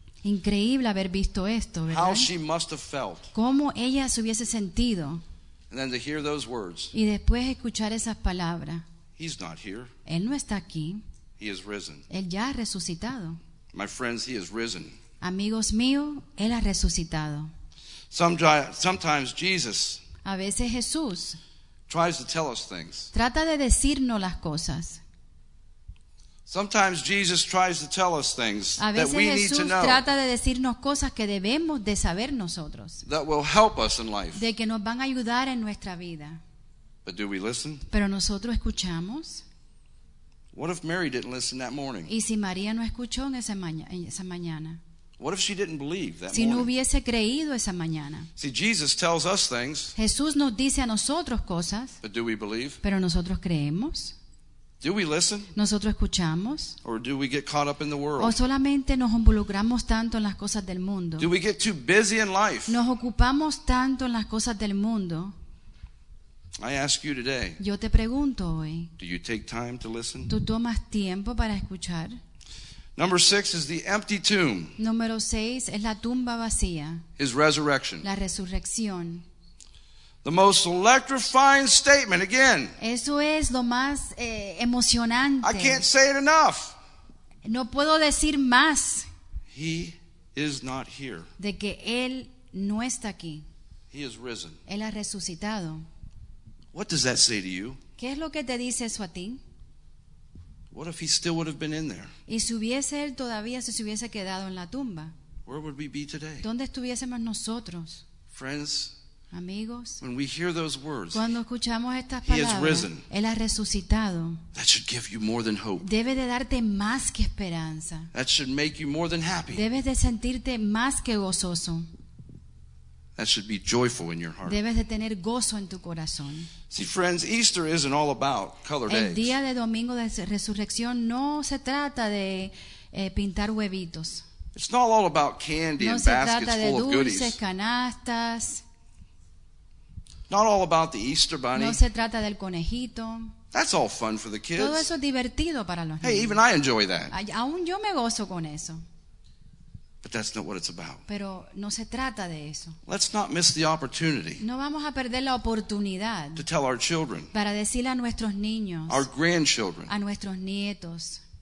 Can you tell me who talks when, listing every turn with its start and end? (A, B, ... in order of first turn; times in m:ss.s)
0:00.2-0:02.3 A
0:01.9-0:03.3 B
0:03.3-0:05.2 A
0:05.7-0:06.9 B
0:06.9-0:08.8 A
0:09.2-0:09.9 B
0:10.0-0:11.0 A
0:11.4-0:12.0 B
0:12.1-0:13.4 A
0:13.7-0:15.0 B
0:15.2-0:17.5 A
0:18.1-0:20.0 B
0:20.2-0:21.4 A
0:21.9-0:23.1 B
0:23.1-0:25.0 A
0:26.5-0:30.0 B
0:28.8-0:33.0 A
0:33.0-0:34.4 B
0:34.3-0:36.4 A
0:37.0-0:37.8 B
0:37.9-0:39.4 A
0:40.5-0:42.1 B
0:42.1-0:44.8 A
0:45.2-0:46.7 B
0:46.3-0:48.3 A
0:48.4-0:49.9 B
0:50.0-0:52.0 A
0:52.0-0:52.8 B
0:52.8-0:54.2 A
0:54.8-0:55.5 B
0:55.5-0:56.8 A
0:56.8-0:58.4 B
0:58.2-1:01.3 A
1:01.2-1:02.8 B
1:02.7-1:05.3 A
1:06.6-1:07.6 B
1:07.6-1:08.9 A
1:09.0-1:10.3 B
1:10.3-1:12.2 A
1:13.0-1:14.8 B
1:14.8-1:17.0 A
1:17.2-1:18.1 B
1:18.0-1:19.2 A
1:20.2-1:22.8 B
1:22.8-1:25.8 A
1:25.4-1:26.8 B
1:27.4-1:29.1 A
1:29.5-1:31.3 B
1:31.4-1:33.4 A
1:33.9-1:34.6 B
1:34.6-1:35.9 A
1:36.7-1:37.8 B
1:38.0-1:39.4 A
1:40.7-1:42.1 B
1:42.3-1:45.1 A
1:45.5-1:46.5 B
1:46.4-1:48.0 A
1:48.3-1:48.9 B
1:49.3-1:50.0 A
1:50.0-1:51.3 B
1:51.1-1:54.4 A
1:52.2-1:53.0 B
1:54.5-1:55.9 B
1:55.8-1:58.1 A
1:58.1-1:59.6 B
1:59.5-2:01.9 A
2:03.2-2:04.6 B
2:04.4-2:06.5 A
2:06.7-2:09.3 B
2:08.9-2:14.2 A
2:14.5-2:17.4 B
2:15.8-2:18.6 A
2:20.3-2:21.8 B
2:21.5-2:23.3 A
2:23.5-2:24.9 B
2:24.6-2:26.4 A
2:26.0-2:27.1 B
2:27.1-2:28.8 A
2:30.0-2:31.0 B
2:31.1-2:32.8 A
2:32.8-2:34.4 B
2:34.4-2:36.4 A
2:36.4-2:37.3 B
2:37.3-2:39.1 A
2:38.9-2:39.9 B
2:39.9-2:41.2 A